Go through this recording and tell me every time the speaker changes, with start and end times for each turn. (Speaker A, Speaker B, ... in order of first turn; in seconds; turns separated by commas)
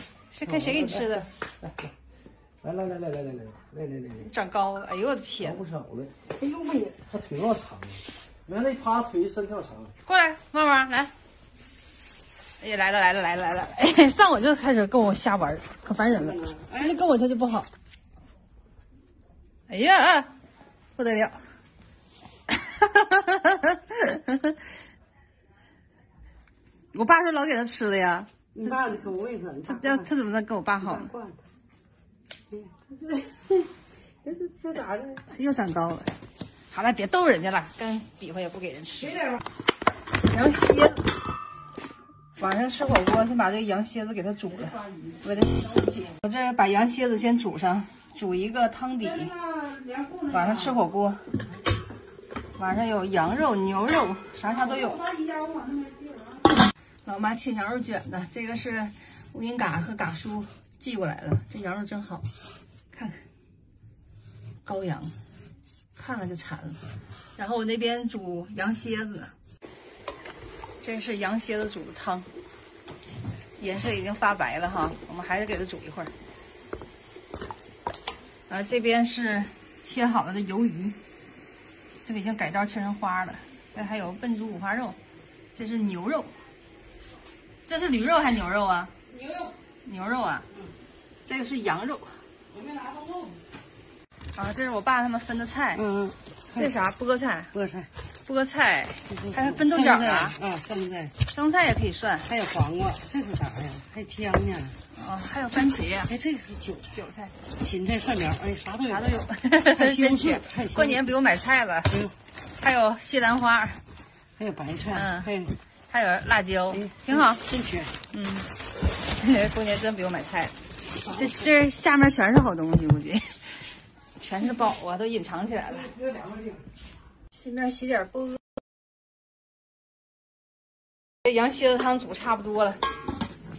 Speaker A: 0.3-1.3, Speaker B: 2.6-4.2, Speaker A: 4.2-5.6, Speaker B: 5.5-6.2, Speaker C: 6.3-7.1, Speaker B: 7.2-9.9, Speaker A: 10.1-11.1, Speaker A: 12.6-17.7, Speaker C: 16.2-16.9, Speaker A: 19.7-20.3, Speaker A: 21.0-21.4, Speaker A: 22.5-24.6, Speaker A: 26.9-28.3, Speaker C: 28.6-30.1, Speaker A: 29.7-31.1, Speaker C: 30.8-31.4, Speaker C: 32.5-33.7, Speaker C: 34.2-35.2, Speaker A: 35.3-36.1, Speaker A: 36.7-39.2, Speaker C: 39.1-39.4, Speaker A: 40.2-41.1, Speaker A: 42.4-49.3, Speaker C: 44.6-45.9, Speaker C: 49.0-50.8, Speaker A: 50.3-51.3, Speaker A: 52.6-55.0, Speaker C: 54.4-56.6, Speaker A: 57.0-62.2, Speaker A: 62.9-63.2, Speaker A: 64.7-65.2, Speaker A: 66.0-66.8, Speaker A: 67.4-69.3, Speaker A: 70.8-72.3, Speaker A: 73.6-76.1, Speaker A: 78.5-81.0, Speaker A: 82.0-85.0, Speaker A: 85.5-86.3, Speaker A: 87.7-88.9, Speaker C: 89.1-89.6, Speaker A: 89.8-90.5, Speaker A: 91.2-92.2, Speaker C: 92.5-93.4, Speaker A: 94.3-95.8, Speaker C: 95.8-96.7, Speaker A: 96.5-97.5, Speaker C: 97.5-97.9, Speaker A: 98.3-100.4, Speaker C: 99.1-101.2, Speaker A: 101.3-102.3, Speaker C: 102.3-104.8, Speaker A: 104.9-106.1, Speaker C: 106.0-107.0, Speaker A: 106.9-107.3, Speaker C: 107.6-109.1, Speaker A: 108.9-111.9, Speaker C: 109.7-111.2, Speaker C: 111.9-112.2, Speaker A: 112.6-113.8, Speaker C: 114.4-115.6, Speaker A: 114.9-115.3, Speaker A: 115.9-117.4, Speaker C: 116.7-118.0, Speaker A: 118.1-118.5, Speaker A: 119.2-120.5, Speaker C: 121.0-121.5, Speaker A: 121.2-125.9, Speaker C: 125.7-126.7, Speaker A: 127.3-128.4, Speaker A: 131.2-132.8